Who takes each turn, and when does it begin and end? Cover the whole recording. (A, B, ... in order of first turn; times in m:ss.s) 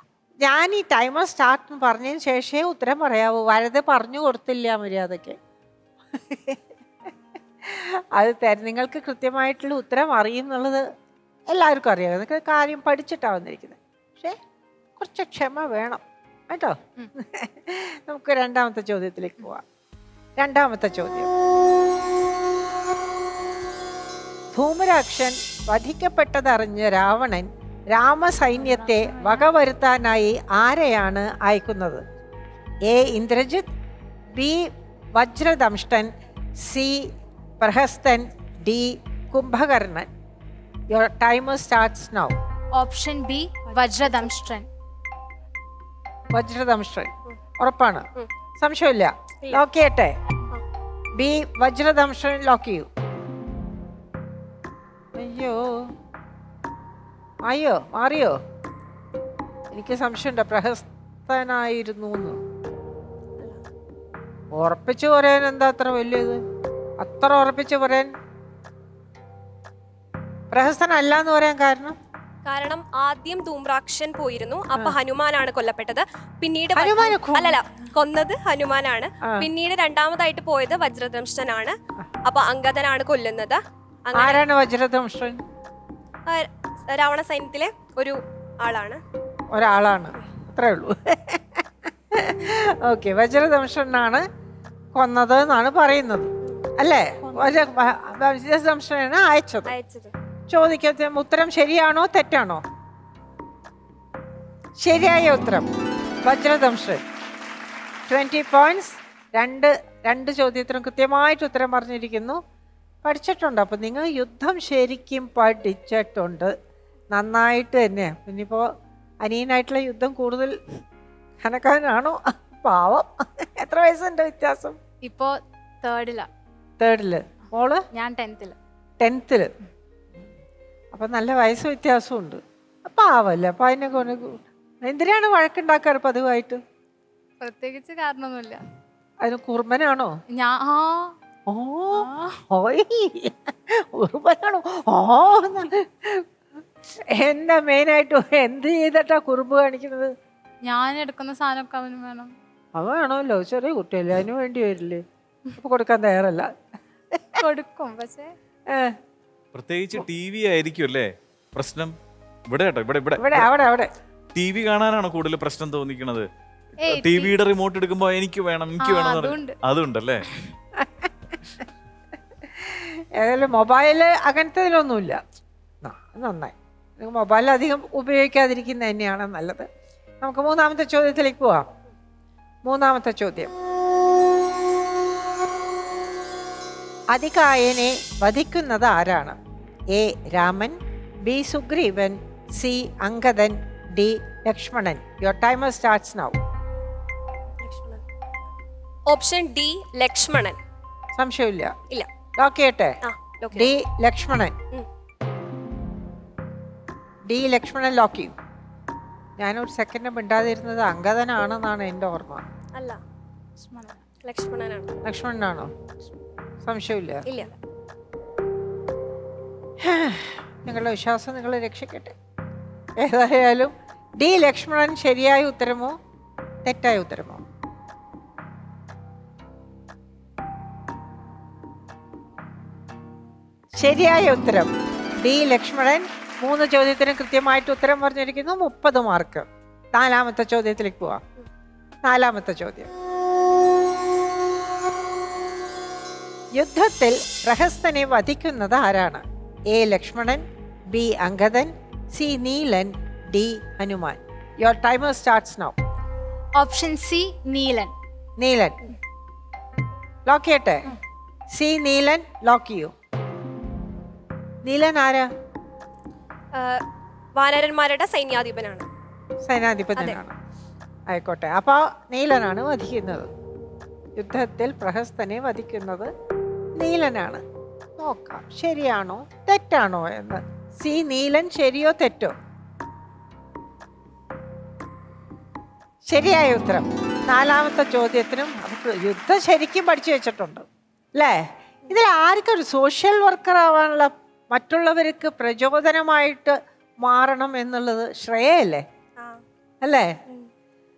0:00.4-0:05.4 A
0:06.2-0:06.6 A
0:07.6-0:10.8 A
0:11.5-0:14.4 A
0:15.0-0:19.6 A
0:20.4-0:21.3 A
0:24.5-0:32.0 A
0:28.6-0:29.5 B
0:32.9-0:33.7 A
0:34.3-0:36.1 A
0:36.6-0:37.1 A
0:37.6-0:40.1 A
0:40.9-0:42.4 A
0:42.8-0:44.7 B
0:46.3-0:48.1 A
0:48.6-0:50.1 A
0:51.2-0:52.9 A
0:55.2-0:55.6 A
0:57.4-0:58.4 A
0:59.7-1:02.4 A
1:04.5-1:06.4 A
1:07.0-1:08.1 A
1:10.5-1:11.9 A
1:12.4-1:21.7 C
1:16.8-1:17.6 A
1:22.2-1:24.4 C
1:24.2-1:25.4 A
1:26.3-1:29.0 C
1:29.5-1:31.6 A
1:32.1-1:34.2 A
1:34.9-1:39.7 A
1:37.2-1:37.6 B
1:39.7-1:40.1 C
1:40.5-1:42.6 A
1:44.8-1:45.7 A
1:46.2-1:47.0 A
1:48.1-1:52.4 A
1:53.0-1:56.5 A
1:57.1-1:58.6 A
1:59.2-2:00.6 A
2:01.4-2:04.8 A
2:05.0-2:06.3 B
2:06.8-2:07.8 A
2:07.9-2:08.6 B
2:09.0-2:09.5 A
2:10.9-2:16.6 A
2:17.4-2:18.6 B
2:19.2-2:20.1 A
2:20.3-2:21.2 B
2:21.5-2:26.2 A
2:21.9-2:22.4 B
2:27.1-2:30.1 A
2:30.6-2:32.3 B
2:32.8-2:35.0 A
2:35.6-2:36.5 A
2:37.1-2:37.4 A
2:37.4-2:38.3 B
2:39.5-2:41.9 D
2:42.5-2:43.5 D
2:43.2-2:43.9 A
2:44.3-2:46.3 D
2:46.8-2:50.2 D
2:46.8-2:47.3 B
2:48.8-2:49.6 B
2:50.8-2:51.1 A
2:52.6-2:55.2 A
2:55.8-2:59.7 A
3:00.2-3:01.6 A
3:02.7-3:03.5 A
3:07.1-3:09.4 A
3:09.9-3:16.4 A
3:17.6-3:18.0 C
3:19.1-3:20.6 C
3:21.2-3:21.7 A
3:22.4-3:23.0 A
3:23.0-3:23.7 C
3:23.5-3:24.6 A
3:27.3-3:28.3 A
3:29.4-3:32.4 A
3:33.6-3:34.0 B
3:34.2-3:34.9 C
3:35.1-3:35.7 A
3:36.6-3:37.2 A
3:39.8-3:42.1 A
3:43.0-3:45.9 A
3:46.6-3:47.4 A
3:53.8-3:54.7 A
3:55.2-4:01.2 A
4:02.0-4:02.9 A
4:06.6-4:15.8 A
4:16.6-4:17.9 B
4:18.4-4:18.8 A
4:20.3-4:20.9 A
4:21.5-4:22.9 A
4:24.6-4:25.3 A
4:27.4-4:28.8 C
4:29.4-4:30.3 A
4:31.1-4:33.3 A
4:34.2-4:36.1 A
4:36.8-4:37.4 A
4:38.0-4:42.3 A
4:46.1-4:50.6 A
4:51.9-4:58.8 A
4:59.8-5:00.1 A